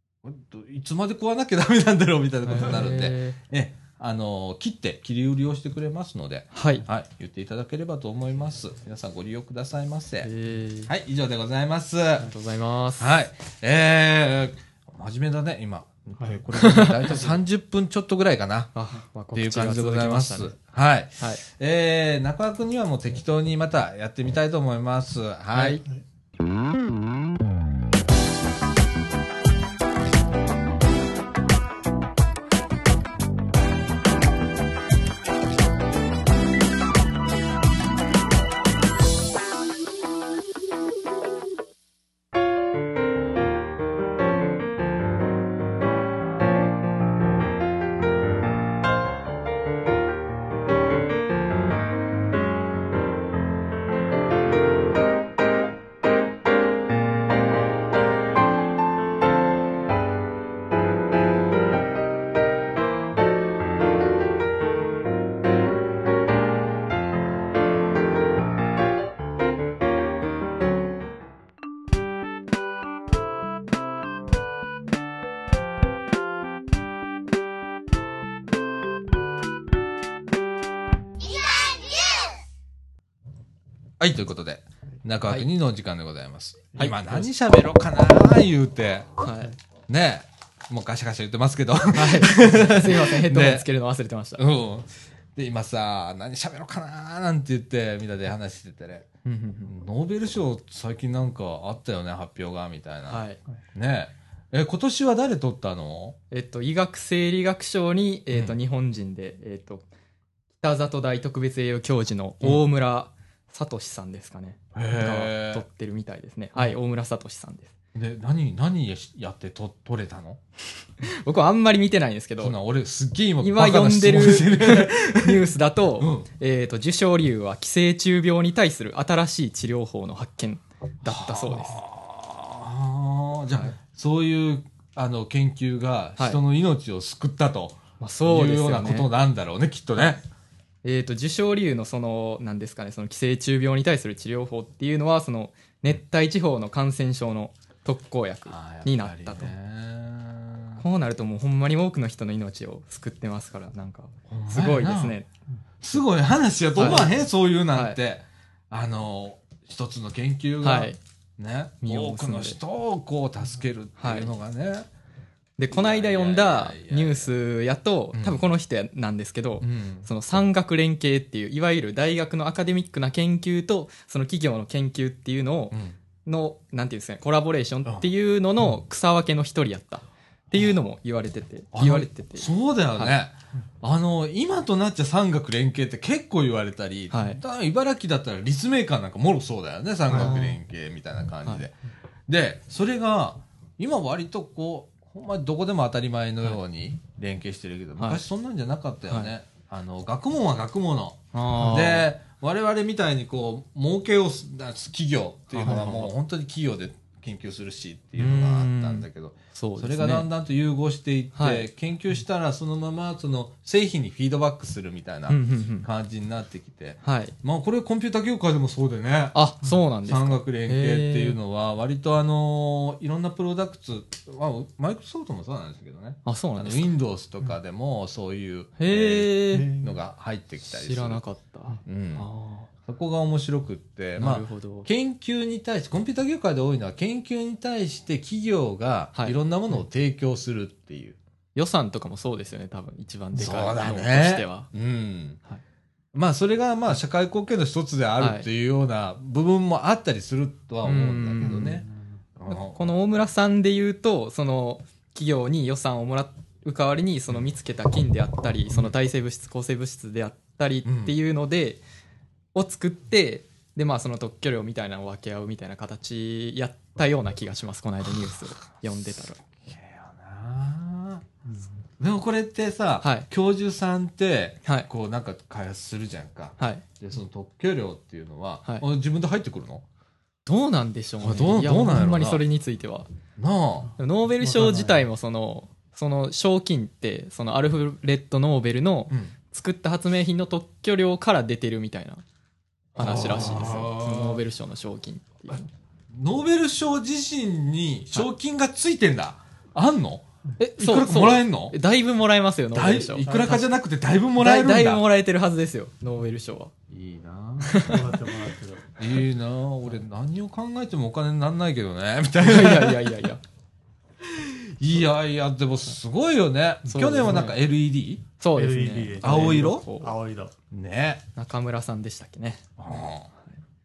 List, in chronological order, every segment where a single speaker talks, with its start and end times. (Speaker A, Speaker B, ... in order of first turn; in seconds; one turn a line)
Speaker A: 0.2-10.3
Speaker B: 2.5-3.4
Speaker B: 6.5-6.9
Speaker B: 10.2-10.9
Speaker A: 10.9-12.3
Speaker B: 12.2-13.1
Speaker A: 13.0-18.8
Speaker B: 16.5-17.4
Speaker B: 18.7-20.6
Speaker A: 19.3-25.8
Speaker B: 25.5-25.8
Speaker A: 84.0-89.2
Speaker B: 86.8-87.3
Speaker B: 89.2-89.6
Speaker A: 89.9-93.7
Speaker B: 91.9-94.4
Speaker A: 94.4-99.1
Speaker B: 99.2-99.7
Speaker A: 99.7-103.2
Speaker B: 103.1-103.4
Speaker A: 103.8-106.2
Speaker B: 106.3-109.8
Speaker B: 110.6-117.7
Speaker A: 114.8-115.6
Speaker A: 118.0-120.4
Speaker B: 121.0-122.6
Speaker A: 122.4-125.5
Speaker B: 123.4-131.8
Speaker A: 126.0-126.3
Speaker A: 131.1-140.2
Speaker B: 138.0-139.1
Speaker B: 140.8-149.5
Speaker A: 148.5-150.8
Speaker B: 150.8-155.3
Speaker A: 154.3-155.2
Speaker A: 155.8-164.9
Speaker B: 156.8-157.2
Speaker B: 157.7-158.0
Speaker B: 160.6-161.0
Speaker B: 161.8-162.6
Speaker B: 164.0-164.3
Speaker B: 165.6-183.1
Speaker A: 165.7-167.3
Speaker A: 168.1-168.4
Speaker A: 169.6-170.1
Speaker A: 175.7-176.0
Speaker A: 181.8-191.8
Speaker B: 187.1-187.4
Speaker B: 190.1-190.6
Speaker A: 192.3-219.4
Speaker B: 201.3-202.1
Speaker B: 205.5-206.1
Speaker B: 208.2-210.3
Speaker B: 211.3-211.7
Speaker B: 215.3-215.9
Speaker B: 217.0-217.3
Speaker B: 219.3-221.4
Speaker A: 220.1-231.2
Speaker B: 226.2-226.9
Speaker B: 228.8-229.8
Speaker C: 229.5-229.9
Speaker B: 230.7-232.7
Speaker A: 231.9-232.3
Speaker A: 232.9-241.2
Speaker B: 234.2-234.9
Speaker B: 241.6-244.7
Speaker A: 243.4-245.4
Speaker A: 246.1-251.8
Speaker B: 248.2-248.5
Speaker B: 250.8-251.8
Speaker A: 252.4-252.8
Speaker B: 252.5-261.8
Speaker A: 260.9-261.1
Speaker B: 262.5-269.4
Speaker A: 269.4-271.2
Speaker A: 272.0-279.8
Speaker B: 273.0-273.3
Speaker B: 276.6-276.8
Speaker B: 280.5-283.1
Speaker A: 281.2-282.4
Speaker A: 283.4-283.9
Speaker B: 284.0-292.2
Speaker C: 284.4-285.0
Speaker A: 293.0-294.4
Speaker B: 293.0-295.7
Speaker A: 296.1-300.2
Speaker B: 300.6-303.7
Speaker A: 300.8-301.8
Speaker A: 302.7-305.0
Speaker B: 304.4-306.7
Speaker A: 306.9-308.0
Speaker B: 307.6-308.1
Speaker C: 307.9-308.9
Speaker A: 309.0-313.2
Speaker B: 312.4-313.4
Speaker A: 314.2-318.3
Speaker B: 316.9-317.6
Speaker B: 318.4-320.2
Speaker C: 318.5-320.5
Speaker A: 319.2-319.9
Speaker A: 320.7-321.2
Speaker B: 321.4-322.6
Speaker A: 322.8-323.3